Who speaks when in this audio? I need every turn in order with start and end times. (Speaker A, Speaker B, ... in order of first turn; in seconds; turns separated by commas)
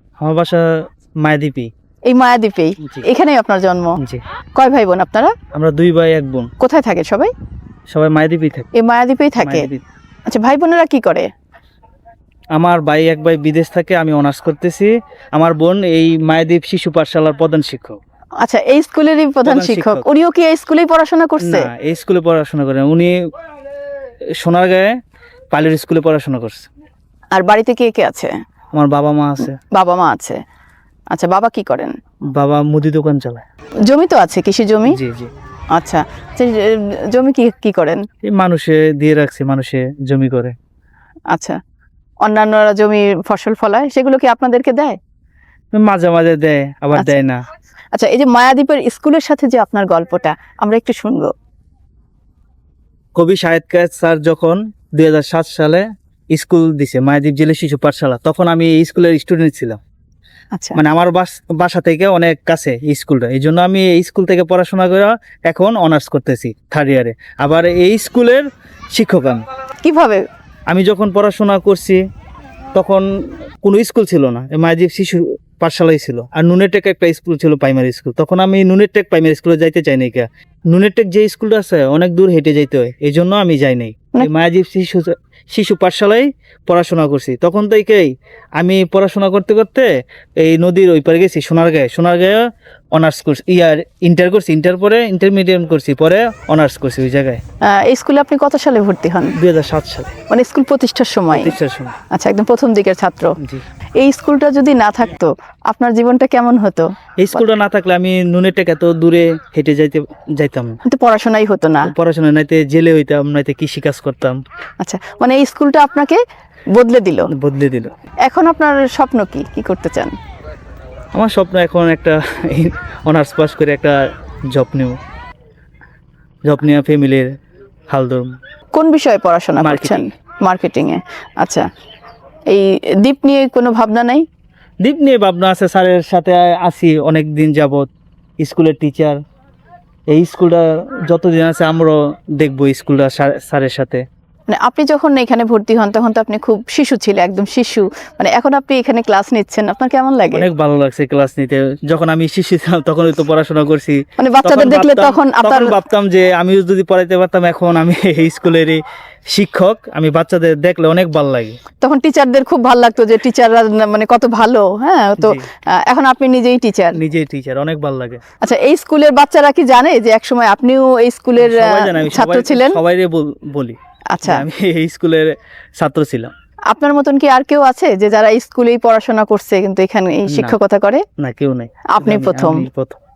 Speaker A: 0.2-1.7, Speaker B: 2.1-4.0, Speaker B: 4.6-5.3, Speaker A: 5.5-6.5, Speaker B: 6.6-7.3, Speaker A: 7.9-8.7, Speaker B: 8.7-9.7, Speaker A: 9.4-9.8, Speaker B: 10.3-11.3, Speaker A: 12.5-18.0, Speaker B: 18.4-21.7, Speaker A: 19.4-20.1, Speaker A: 21.4-23.2, Speaker A: 24.4-24.9, Speaker A: 25.5-26.7, Speaker B: 27.3-28.3, Speaker A: 28.7-29.6, Speaker B: 29.6-30.4, Speaker B: 31.1-31.9, Speaker A: 32.3-33.4, Speaker B: 33.8-35.0, Speaker A: 34.9-35.3, Speaker B: 35.7-38.0, Speaker A: 38.2-40.5, Speaker B: 41.3-41.6, Speaker B: 42.2-45.0, Speaker A: 45.7-47.4, Speaker B: 47.9-51.3, Speaker A: 53.1-59.8, Speaker B: 60.5-60.8, Speaker A: 60.8-69.4, Speaker B: 69.8-70.2, Speaker A: 70.7-72.0, Speaker A: 72.7-73.1, Speaker A: 73.6-92.4, Speaker A: 93.0-97.4, Speaker B: 97.6-99.3, Speaker A: 99.3-100.1, Speaker B: 100.3-101.5, Speaker A: 101.3-102.0, Speaker B: 102.1-103.3, Speaker B: 104.0-106.9, Speaker A: 107.2-110.8, Speaker B: 110.8-111.9, Speaker A: 111.8-114.4, Speaker B: 114.8-116.2, Speaker B: 116.7-117.3, Speaker A: 117.3-117.9, Speaker B: 118.2-120.1, Speaker A: 121.1-124.0, Speaker A: 124.5-125.0, Speaker A: 126.5-127.3, Speaker A: 127.9-128.3, Speaker B: 128.7-131.6, Speaker A: 129.6-130.1, Speaker B: 132.5-134.2, Speaker A: 134.8-137.9, Speaker A: 138.4-139.2, Speaker A: 140.1-144.0, Speaker B: 144.5-150.4, Speaker A: 150.3-158.8, Speaker B: 154.2-155.8, Speaker A: 159.3-161.6, Speaker B: 161.8-167.0, Speaker A: 165.2-165.4, Speaker A: 166.9-168.2, Speaker B: 168.4-172.8, Speaker A: 171.4-176.3, Speaker B: 174.1-174.4, Speaker B: 176.7-181.0, Speaker A: 180.3-180.6, Speaker A: 181.2-183.0, Speaker B: 181.9-182.7